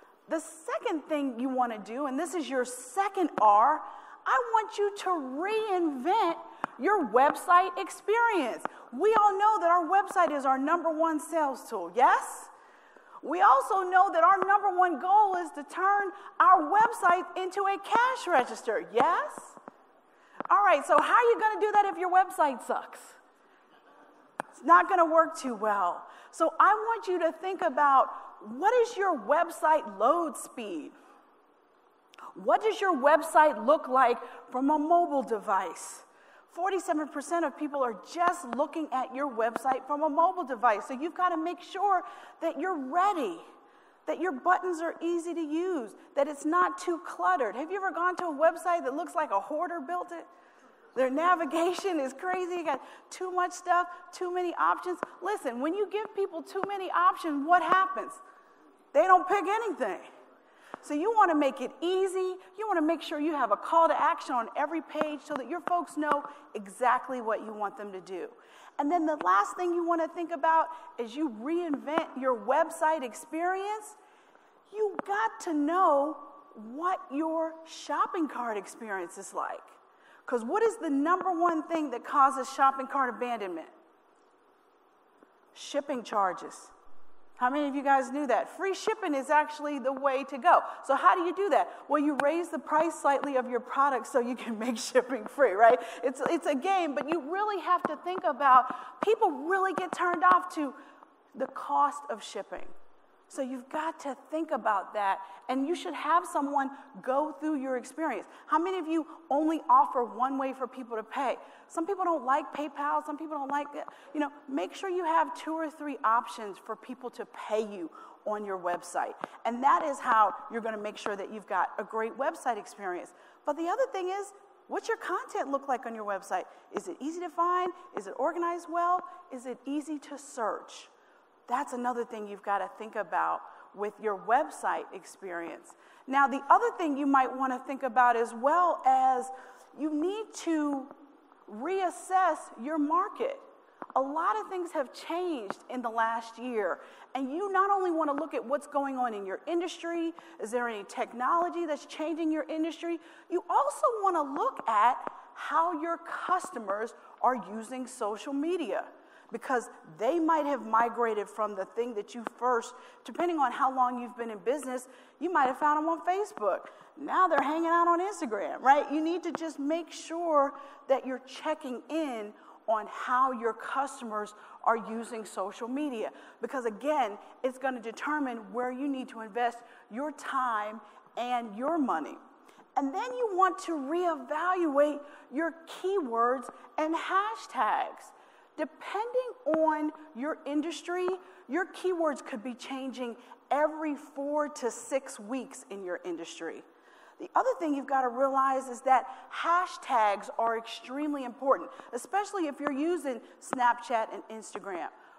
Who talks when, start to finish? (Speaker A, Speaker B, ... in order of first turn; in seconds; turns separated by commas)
Speaker A: 0.3-12.5, Speaker A: 13.2-19.6, Speaker A: 20.5-23.2, Speaker A: 24.6-30.9, Speaker A: 32.4-43.5, Speaker A: 44.1-50.3, Speaker A: 51.0-58.2, Speaker A: 58.9-60.1, Speaker A: 60.8-74.0, Speaker A: 74.7-79.7, Speaker A: 80.3-83.7, Speaker A: 85.5-86.7, Speaker A: 87.4-100.8, Speaker A: 101.3-102.7, Speaker A: 103.3-130.9, Speaker A: 131.5-140.9, Speaker A: 141.5-182.2, Speaker A: 182.8-196.7, Speaker A: 197.2-204.9